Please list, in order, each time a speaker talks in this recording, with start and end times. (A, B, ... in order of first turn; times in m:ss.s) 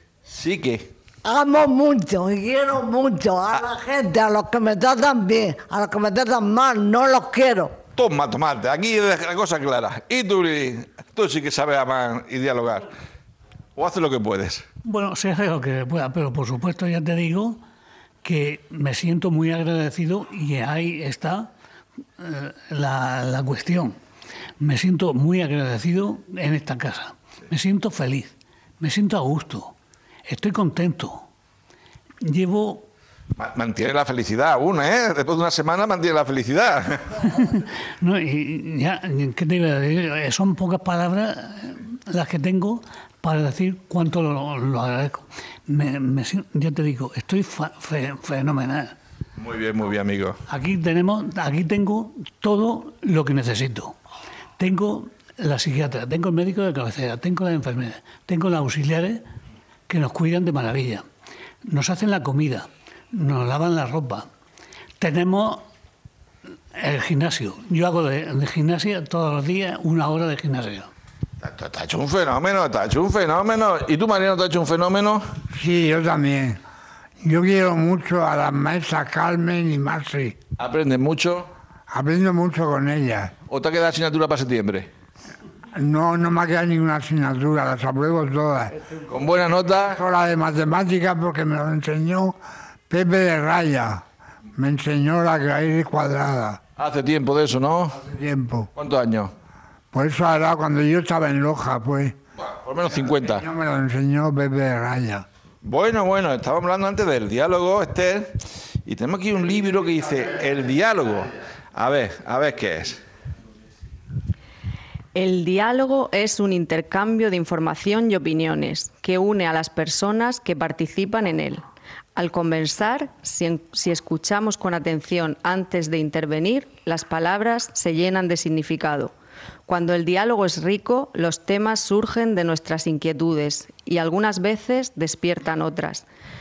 0:00.3-0:00.9 A
0:01.2-0:07.8 B
0:08.0-0:12.9 A
0:13.8-0:14.6 A
0:14.8-0:17.6 C
0:18.2-0:21.5 C
0:22.2-0:24.0 C
0:24.6-0:29.7 C
0:30.3-0:31.2 C
0:32.2-0:32.8 C
0:33.4-0:37.2 A
0:37.4-0:48.9 C
0:49.4-0:50.4 A
0:50.5-0:54.0 C
0:54.6-0:59.2 C
0:59.9-1:01.0 C
1:01.7-1:04.2 C
1:05.0-1:05.6 C
1:06.8-1:10.9 C
1:11.4-1:15.2 A
1:15.5-1:16.6 D
1:17.2-1:20.4 D
1:20.6-1:21.5 A
1:21.9-1:23.3 D
1:23.5-1:24.9 A
1:25.8-1:28.8 D
1:29.1-1:30.0 A
1:29.9-1:32.4 D
1:32.9-1:34.0 D
1:34.6-1:36.6 D
1:36.8-1:38.0 A
1:37.9-1:38.7 D
1:38.7-1:39.3 A
1:39.9-1:42.1 D
1:42.4-1:43.5 A
1:43.0-1:45.2 D
1:45.6-1:53.0 A
1:55.1-2:01.6 E
2:02.1-2:09.1 E
2:09.6-2:16.0 E